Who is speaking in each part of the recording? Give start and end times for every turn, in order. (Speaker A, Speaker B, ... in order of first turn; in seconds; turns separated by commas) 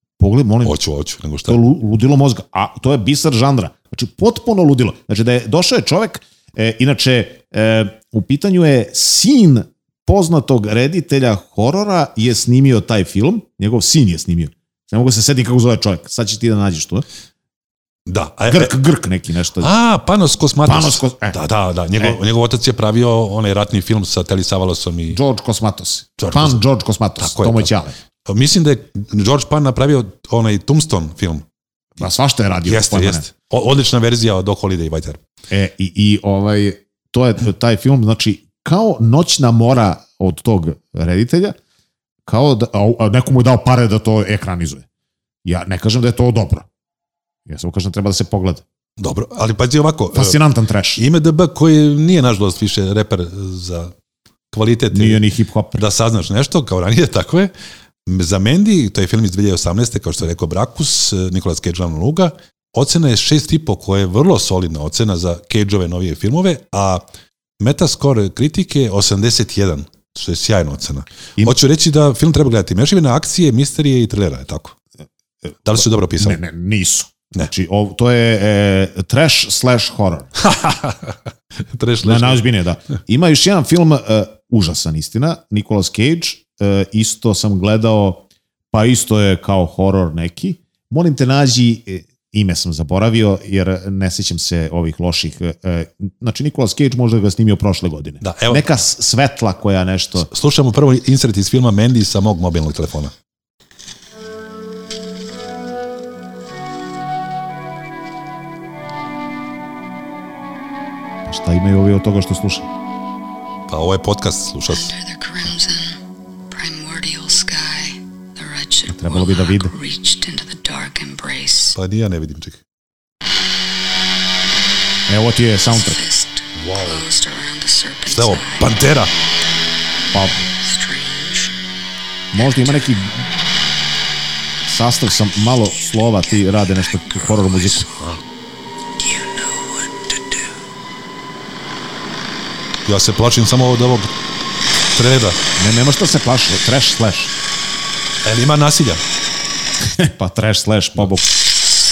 Speaker A: 0.2-0.8, Speaker B: 0.6-1.6, Speaker A: 1.5-17.0, Speaker B: 18.1-18.8, Speaker A: 18.5-19.7, Speaker B: 19.6-25.2, Speaker A: 20.6-21.4, Speaker A: 25.1-27.9, Speaker B: 26.2-26.6, Speaker B: 27.2-27.7, Speaker B: 28.2-31.4, Speaker A: 32.0-33.2, Speaker B: 32.6-35.2, Speaker A: 35.5-41.5, Speaker A: 42.2-44.8, Speaker A: 45.4-46.7, Speaker A: 47.5-48.6, Speaker B: 49.0-50.4, Speaker A: 50.1-51.0, Speaker B: 51.0-53.9, Speaker B: 54.5-55.2, Speaker A: 54.9-55.8, Speaker B: 55.7-57.5, Speaker B: 58.0-67.0, Speaker B: 67.6-74.8, Speaker B: 75.6-76.4, Speaker A: 76.2-80.3, Speaker B: 80.4-81.2, Speaker B: 81.7-82.4, Speaker A: 82.0-100.3, Speaker B: 98.2-98.7, Speaker B: 100.2-103.1, Speaker A: 111.2-112.7, Speaker B: 113.7-114.9, Speaker C: 114.7-121.8, Speaker A: 118.9-119.7, Speaker B: 121.7-122.6, Speaker A: 125.1-126.0, Speaker C: 125.7-128.8, Speaker B: 126.5-127.0, Speaker B: 128.1-129.1, Speaker A: 130.1-130.4, Speaker C: 130.5-131.5, Speaker C: 132.3-133.0, Speaker A: 132.3-133.2, Speaker A: 134.6-137.9, Speaker C: 136.4-137.8, Speaker C: 139.0-139.9, Speaker B: 142.8-144.1, Speaker B: 144.9-145.4, Speaker A: 145.6-147.3, Speaker B: 148.2-149.0, Speaker A: 149.8-151.3